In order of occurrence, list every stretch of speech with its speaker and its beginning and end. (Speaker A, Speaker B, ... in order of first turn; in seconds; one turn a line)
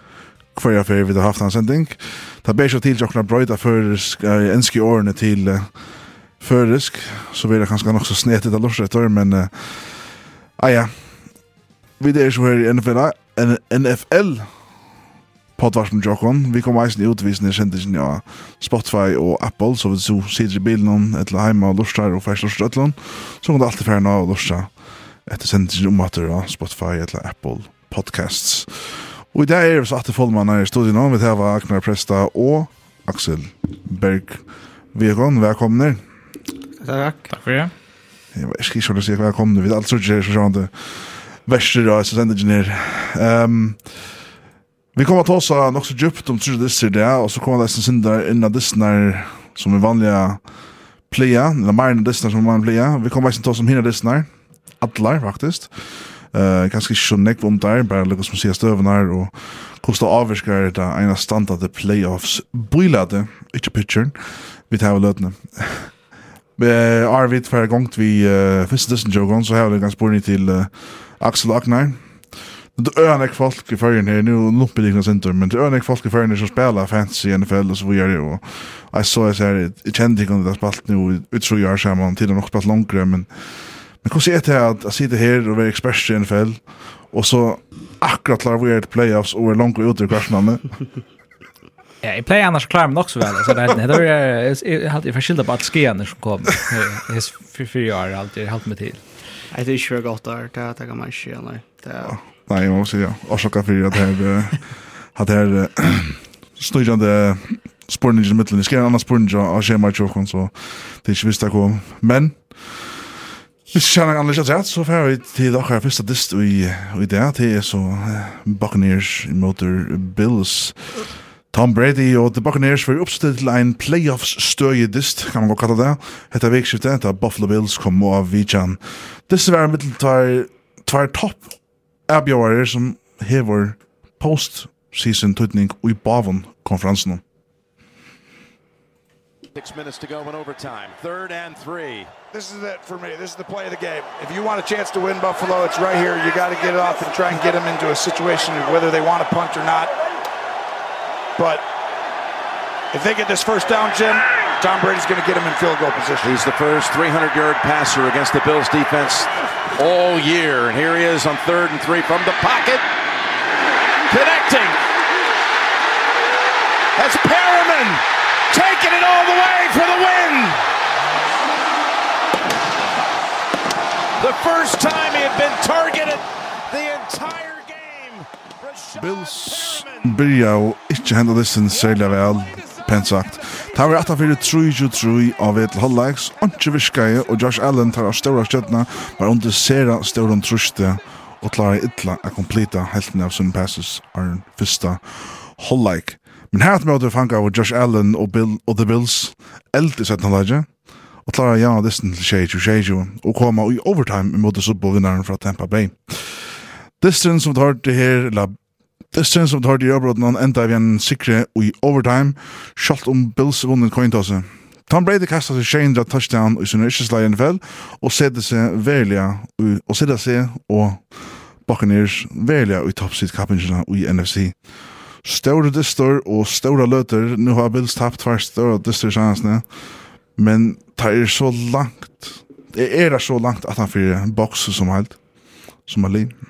Speaker A: 0.5-5.7
Speaker A: 6.4-10.9
Speaker A: 12.0-14.5
Speaker A: 15.6-24.7
Speaker A: 25.2-36.0
Speaker B: 36.8-37.3
Speaker C: 37.3-37.7
Speaker A: 38.3-44.1
Speaker A: 44.9-50.4
Speaker A: 51.1-54.3
Speaker A: 54.8-65.9
Speaker A: 66.6-72.0
Speaker A: 72.7-83.3
Speaker A: 84.0-90.7
Speaker C: 92.0-99.0
Speaker B: 99.5-102.2
Speaker A: 102.0-113.0
Speaker A: 113.7-131.5
Speaker A: 132.1-137.2
Speaker D: 139.5-142.1
Speaker E: 142.3-149.9
Speaker E: 151.4-151.7
Speaker E: 152.9-156.4
Speaker D: 156.2-162.8
Speaker D: 164.1-164.8
Speaker D: 166.9-170.6
Speaker D: 174.2-180.0
Speaker A: 179.0-200.7
Speaker A: 201.2-208.6
Speaker A: 209.1-224.6
Speaker A: 225.2-229.7
Speaker A: 230.3-235.2
Speaker A: 235.8-236.3